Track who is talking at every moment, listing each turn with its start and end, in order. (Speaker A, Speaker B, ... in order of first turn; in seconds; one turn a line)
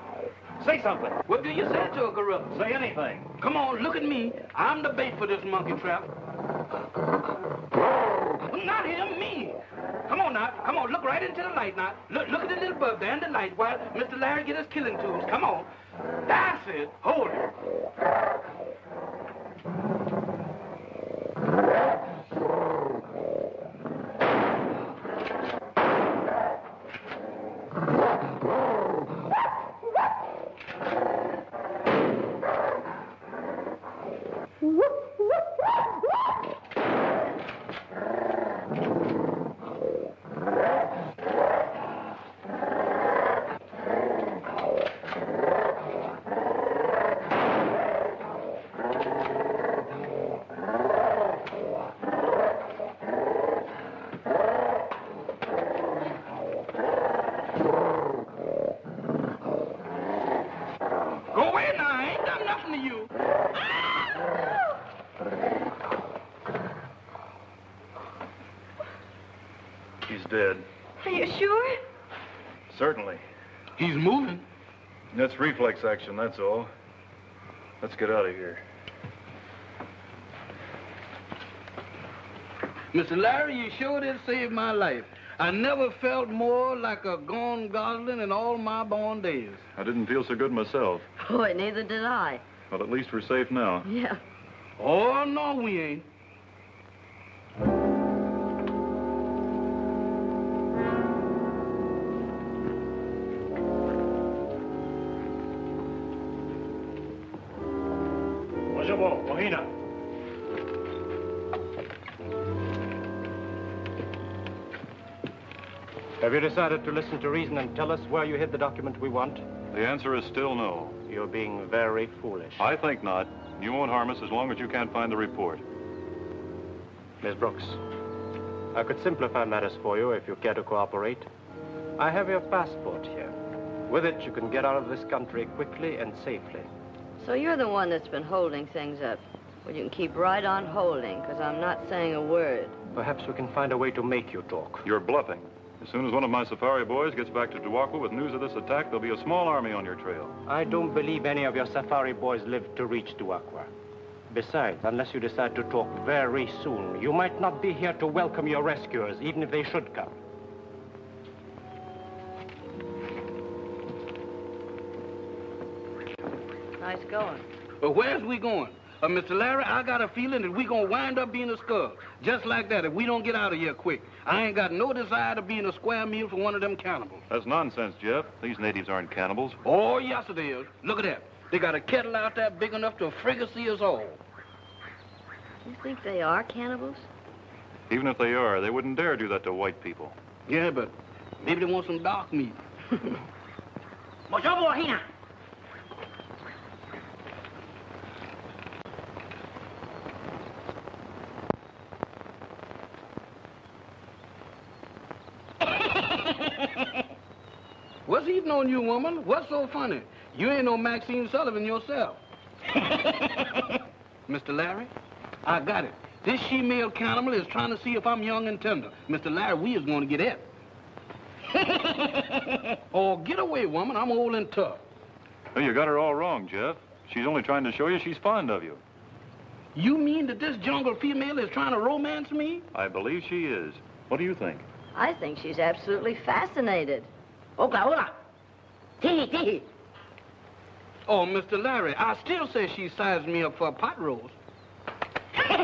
Speaker A: 0.6-1.2
Speaker B: 1.3-2.5
Speaker A: 2.5-3.3
Speaker B: 3.4-6.1
Speaker B: 8.4-15.7
Speaker B: 16.2-17.5
Speaker B: 61.3-63.1
Speaker A: 70.0-70.7
Speaker C: 71.0-71.8
Speaker A: 72.7-73.2
Speaker B: 73.8-74.4
Speaker A: 75.1-76.7
Speaker A: 77.8-78.6
Speaker B: 82.9-89.6
Speaker A: 89.8-91.1
Speaker C: 91.2-92.4
Speaker A: 92.7-93.9
Speaker C: 93.8-94.2
Speaker B: 94.8-96.0
Speaker D: 108.7-109.7
Speaker D: 116.2-119.5
Speaker A: 119.7-121.0
Speaker D: 121.1-122.6
Speaker A: 122.6-125.6
Speaker D: 127.2-127.8
Speaker D: 128.7-131.3
Speaker D: 132.0-133.3
Speaker D: 133.9-136.7
Speaker C: 137.2-142.8
Speaker D: 142.9-144.8
Speaker A: 144.8-150.3
Speaker D: 150.5-153.7
Speaker D: 154.3-160.1
Speaker C: 166.8-167.4
Speaker B: 167.8-177.2
Speaker A: 177.3-179.6
Speaker B: 179.6-184.2
Speaker C: 185.6-187.1
Speaker A: 187.9-190.1
Speaker B: 190.5-192.6
Speaker E: 194.3-195.0
Speaker B: 208.1-212.2
Speaker E: 213.0-213.3
Speaker B: 214.3-214.9
Speaker B: 215.4-220.4
Speaker E: 221.5-222.5
Speaker B: 222.9-224.8
Speaker A: 225.5-228.8
Speaker B: 229.7-232.7
Speaker A: 232.7-234.7
Speaker C: 234.9-237.1
Speaker E: 237.6-238.2
Speaker E: 239.0-239.7
Speaker B: 241.1-244.3